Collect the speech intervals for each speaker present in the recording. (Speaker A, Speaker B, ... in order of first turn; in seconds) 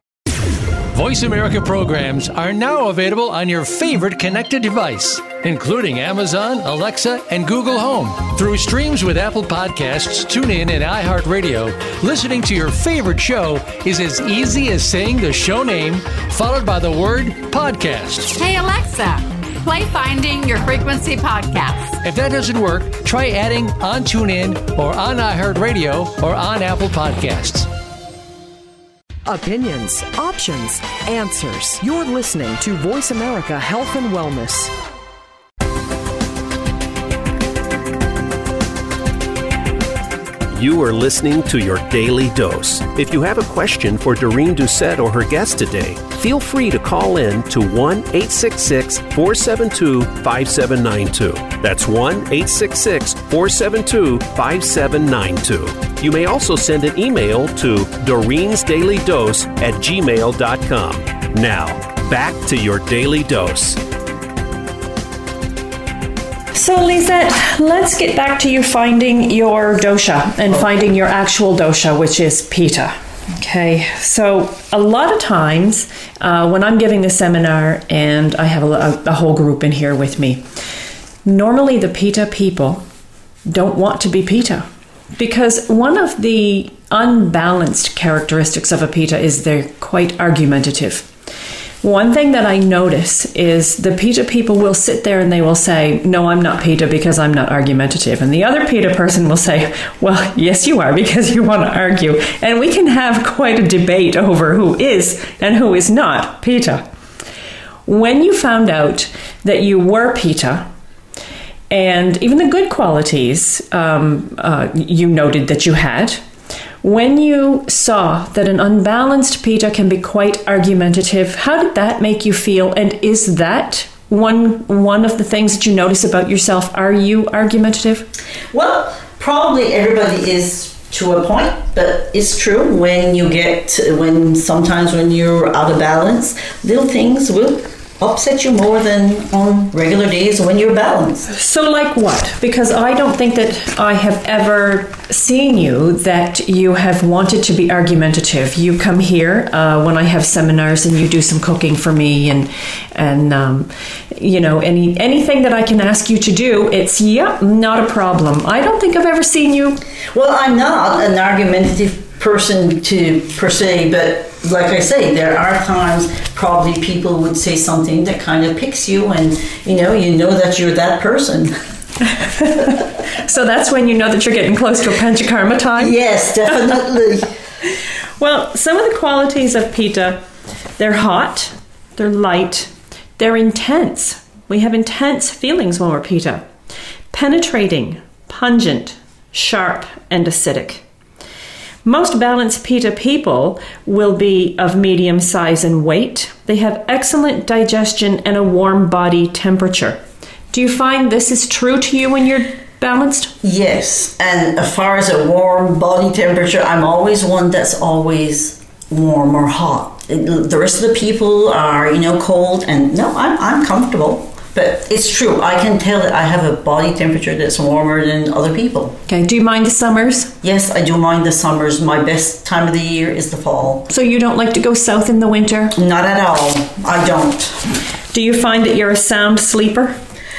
Speaker A: 0.9-18.3, 22.0-27.7
Speaker B: 18.4-22.0
Speaker C: 29.3-34.7
Speaker D: 40.5-63.8
Speaker E: 66.5-80.4, 81.2-82.8, 83.5-91.1, 91.8-106.8, 107.9-110.7, 111.7-116.2, 116.8-128.1, 141.3-159.8, 172.2-175.9, 178.2-180.2, 180.8-186.5, 187.1-190.8, 191.8-200.0, 200.5-203.3, 219.1-220.3, 223.9-225.8, 228.1-230.0
Speaker F: 128.5-141.3, 160.1-171.5, 175.8-177.3, 203.4-219.0, 220.4-223.9, 225.8-227.7